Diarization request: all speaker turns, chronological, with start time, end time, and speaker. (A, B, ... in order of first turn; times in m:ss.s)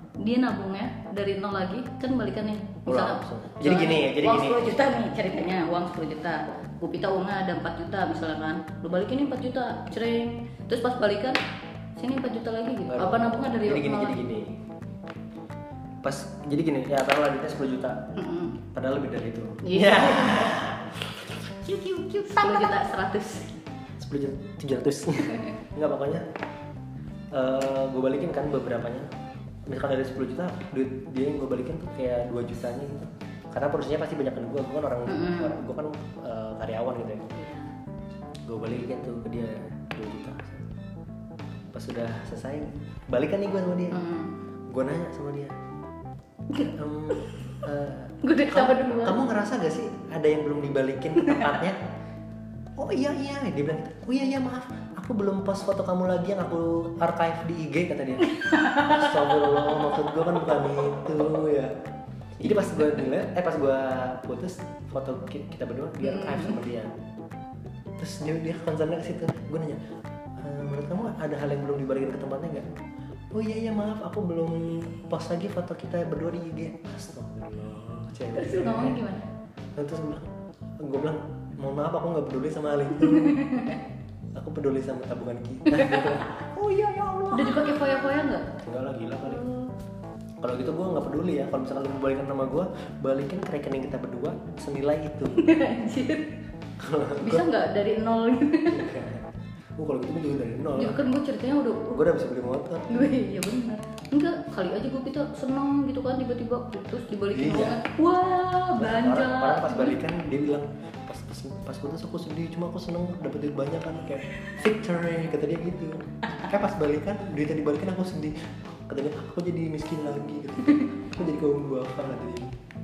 0:00.2-0:11.4 A
0:02.9-0:04.8 B
0:12.0-0:14.2 A
0:12.9-0:14.6 B
0:16.0-0:18.1 B
0:18.1-0:18.6 A
0:18.7-0:22.8 B
0:19.6-0:20.6 A
0:21.9-0:23.6 A
0:24.0-0:26.2 B
0:27.3-0:29.1 B
0:29.7-0:37.3 B
0:35.1-0:35.6 A
0:37.3-0:37.7 A
0:38.5-0:40.7 B
0:41.7-0:44.0 B
0:43.9-0:44.3 A
0:44.7-0:45.6 B
0:46.5-0:51.8 B
0:48.2-0:49.3 A
0:51.2-0:51.5 A
0:52.8-0:58.3 B
0:58.2-1:00.5 A
0:58.8-1:01.7 B
1:02.4-1:06.9 B
1:02.4-1:03.0 A
1:06.0-1:06.6 A
1:08.0-1:09.8 B
1:10.4-1:12.7 B
1:13.3-1:19.0 B
1:18.3-1:19.2 A
1:19.8-1:23.5 B
1:23.0-1:23.8 A
1:24.3-1:29.5 B
1:25.7-1:26.3 A
1:27.3-1:28.5 A
1:29.2-1:29.7 A
1:30.4-1:35.5 B
1:35.4-1:36.3 A
1:36.8-1:37.5 B
1:37.2-1:38.9 A
1:38.7-1:41.0 B
1:40.8-1:42.0 A
1:41.9-1:43.2 B
1:42.9-1:50.0 A
1:47.3-1:47.8 B
1:48.7-2:02.5 B